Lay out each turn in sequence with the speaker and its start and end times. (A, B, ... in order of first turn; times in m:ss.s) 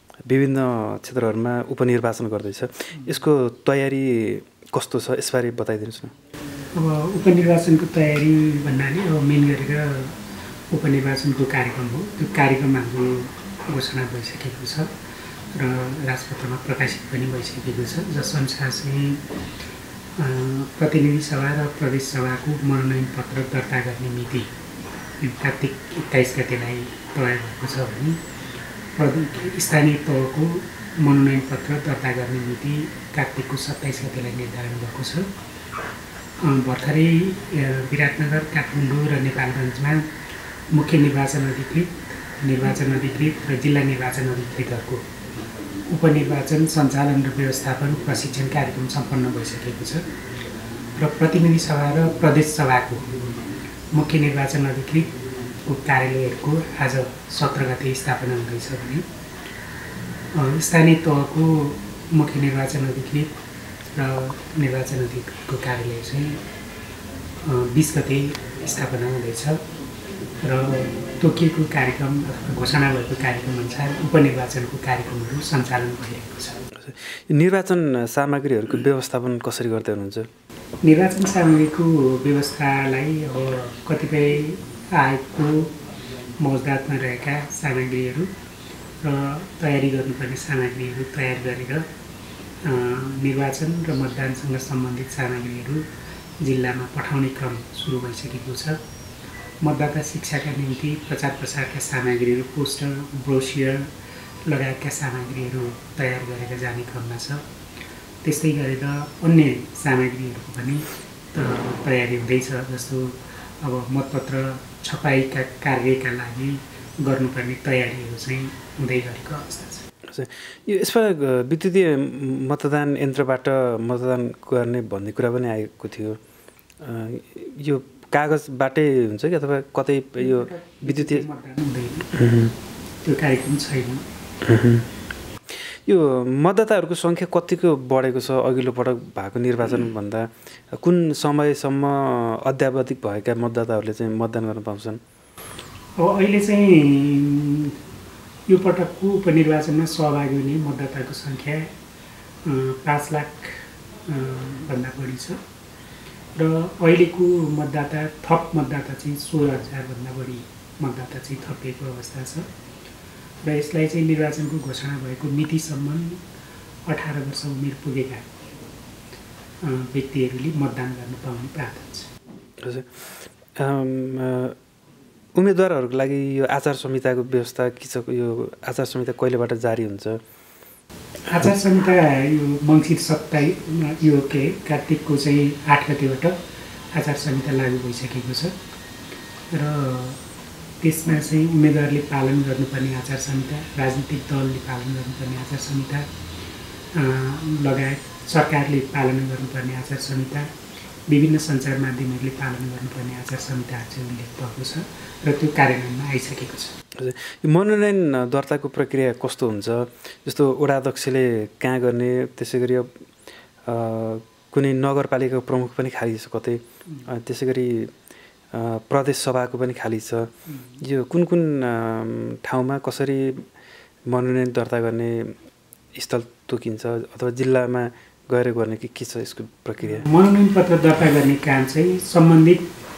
0:00.3-0:06.1 A
0:06.7-0:10.2 B
0:10.7-0:14.9 B
0:15.5-0:19.2 B
0:20.2-0:24.5 B
0:25.2-0:28.2 B
0:29.0-0:35.3 B
0:36.4-0:40.1 B
0:40.7-0:45.0 B
0:45.9-0:50.1 B
0:51.0-0:53.2 B
0:53.9-0:55.2 B
0:55.7-0:59.0 B
1:00.3-1:03.3 B
1:03.9-1:06.4 B
1:07.4-1:09.6 B
1:10.4-1:16.6 B
1:16.8-1:20.3 A
1:20.8-1:25.7 B
1:26.4-1:28.3 B
1:29.0-1:31.8 B
1:32.6-1:35.8 B
1:36.4-1:38.8 B
1:39.6-1:43.9 B
1:44.5-1:47.4 B
1:48.2-1:59.8 B
2:00.1-2:06.2 A
2:06.8-2:11.3 A
2:10.2-2:12.1 B
2:12.1-2:12.5 A
2:13.0-2:14.0 B
2:14.4-2:14.9 A
2:15.9-2:25.0 A
2:26.0-2:27.8 B
2:28.5-2:31.7 B
2:32.4-2:35.4 B
2:36.4-2:42.5 B
2:43.4-2:46.2 B
2:46.9-2:48.2 B
2:49.6-2:52.1 B
2:52.6-2:54.6 A
2:55.4-3:00.2 A
3:01.3-3:06.4 B
3:06.9-3:08.6 B
3:09.5-3:10.2 B
3:10.8-3:16.1 B
3:16.9-3:20.5 B
3:21.1-3:26.7 B
3:27.0-3:33.0 A
3:33.7-3:37.9 A
3:38.5-3:43.5 A
3:40.5-3:40.8 B
3:44.1-3:45.4 A
3:45.9-3:50.1 A
3:49.8-3:52.7 B